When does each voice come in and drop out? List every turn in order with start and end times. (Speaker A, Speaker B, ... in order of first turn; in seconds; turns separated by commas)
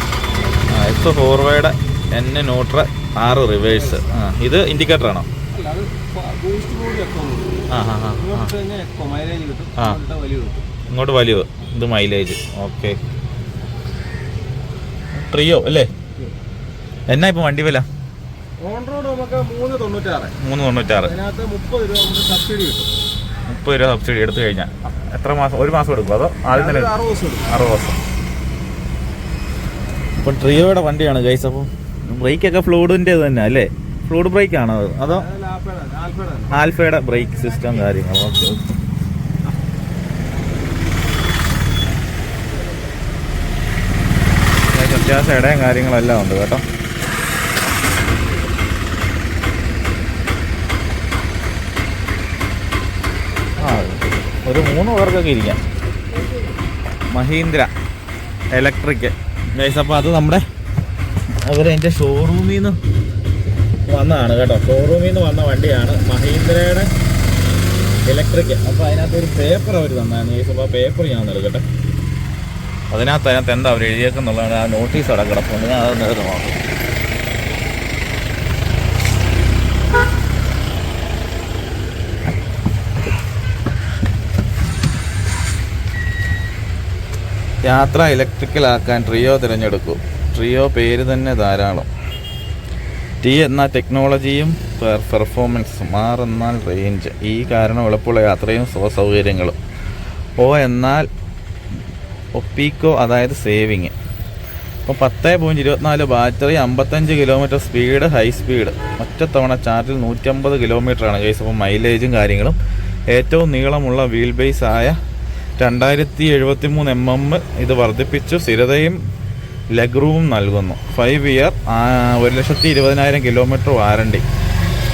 Speaker A: 0.7-5.3, Speaker B: 5.5-7.7, Speaker A: 7.7-8.5, Speaker B: 8.2-10.7, Speaker A: 10.9-13.0, Speaker A: 15.1-15.9, Speaker A: 17.1-17.9, Speaker B: 18.6-20.4, Speaker A: 20.4-21.1, Speaker B: 21.0-22.9, Speaker A: 23.5-28.0, Speaker B: 26.5-27.5, Speaker A: 30.2-35.3, Speaker B: 35.1-36.5, Speaker A: 36.5-38.7, Speaker A: 44.7-46.6, Speaker A: 53.6-55.6, Speaker A: 57.1-57.7, Speaker A: 58.5-60.4, Speaker A: 61.5-62.8, Speaker A: 63.9-66.9, Speaker A: 68.1-71.6, Speaker A: 72.9-76.6, Speaker A: 87.6-91.9, Speaker A: 93.2-99.6, Speaker A: 100.4-101.1, Speaker A: 102.3-103.9, Speaker A: 104.8-112.6, Speaker A: 113.1-115.0, Speaker A: 115.6-119.0, Speaker A: 119.7-124.2